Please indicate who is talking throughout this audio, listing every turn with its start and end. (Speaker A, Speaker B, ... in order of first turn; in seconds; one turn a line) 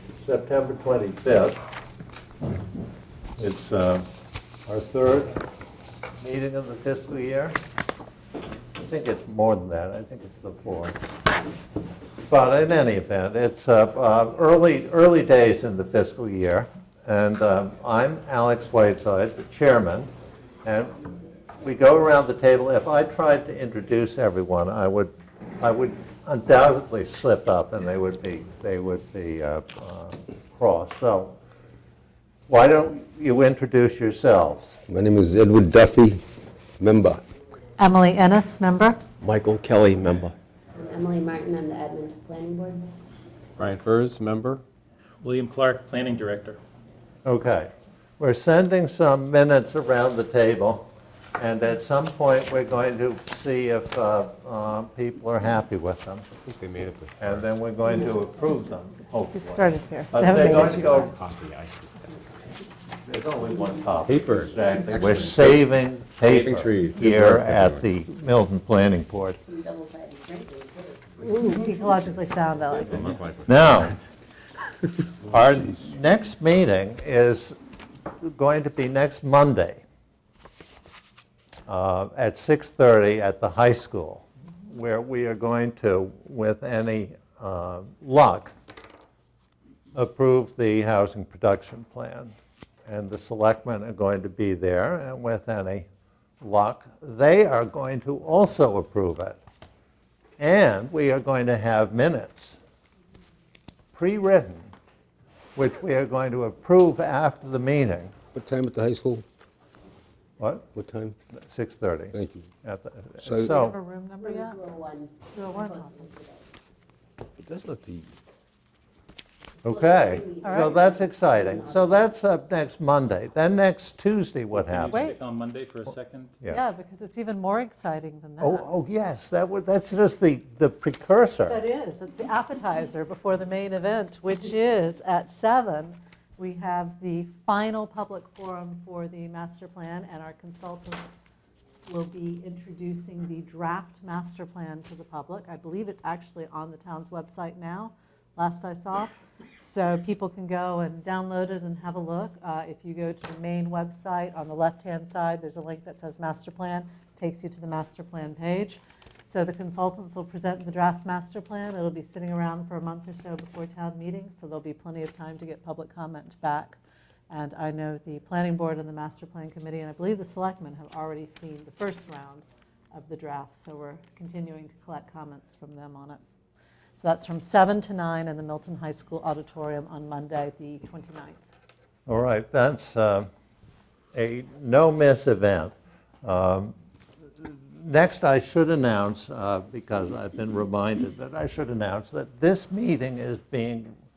Speaker A: 0.2-1.6
Speaker A: 3.4-4.0
Speaker A: 4.7-5.4
Speaker A: 6.2-7.6
Speaker A: 8.8-10.9
Speaker A: 12.3-20.1
Speaker A: 20.6-21.0
Speaker A: 21.6-31.4
Speaker A: 32.5-34.8
Speaker B: 34.9-36.2
Speaker B: 36.8-37.2
Speaker C: 37.8-39.0
Speaker B: 39.2-40.3
Speaker D: 40.8-42.9
Speaker E: 43.6-44.6
Speaker F: 45.2-46.6
Speaker A: 47.2-56.2
Speaker E: 56.5-57.5
Speaker A: 57.2-61.1
Speaker D: 57.8-58.4
Speaker C: 59.3-61.1
Speaker E: 60.3-62.1
Speaker A: 63.0-69.4
Speaker E: 64.0-65.6
Speaker E: 66.2-67.8
Speaker D: 69.4-71.7
Speaker C: 71.3-73.2
Speaker E: 72.7-74.0
Speaker A: 73.5-74.0
Speaker A: 75.2-77.5
Speaker A: 78.2-79.8
Speaker A: 81.7-88.5
Speaker A: 89.9-92.3
Speaker A: 92.9-95.8
Speaker A: 96.4-99.4
Speaker A: 100.4-102.6
Speaker A: 103.9-104.7
Speaker A: 105.5-108.2
Speaker B: 108.3-109.2
Speaker A: 110.4-110.7
Speaker B: 110.7-111.1
Speaker A: 111.4-113.8
Speaker B: 112.1-112.5
Speaker B: 113.2-113.5
Speaker C: 113.4-114.6
Speaker D: 114.2-116.5
Speaker C: 115.3-116.1
Speaker B: 117.4-118.1
Speaker D: 119.6-122.1
Speaker A: 119.6-125.1
Speaker C: 120.4-120.7
Speaker F: 124.5-126.4
Speaker C: 124.9-125.2
Speaker C: 126.4-128.7
Speaker A: 128.4-131.6
Speaker C: 131.4-141.1
Speaker C: 141.8-166.8
Speaker C: 167.3-176.2
Speaker C: 177.0-181.4
Speaker A: 182.1-183.3
Speaker A: 184.1-186.7
Speaker A: 187.4-193.9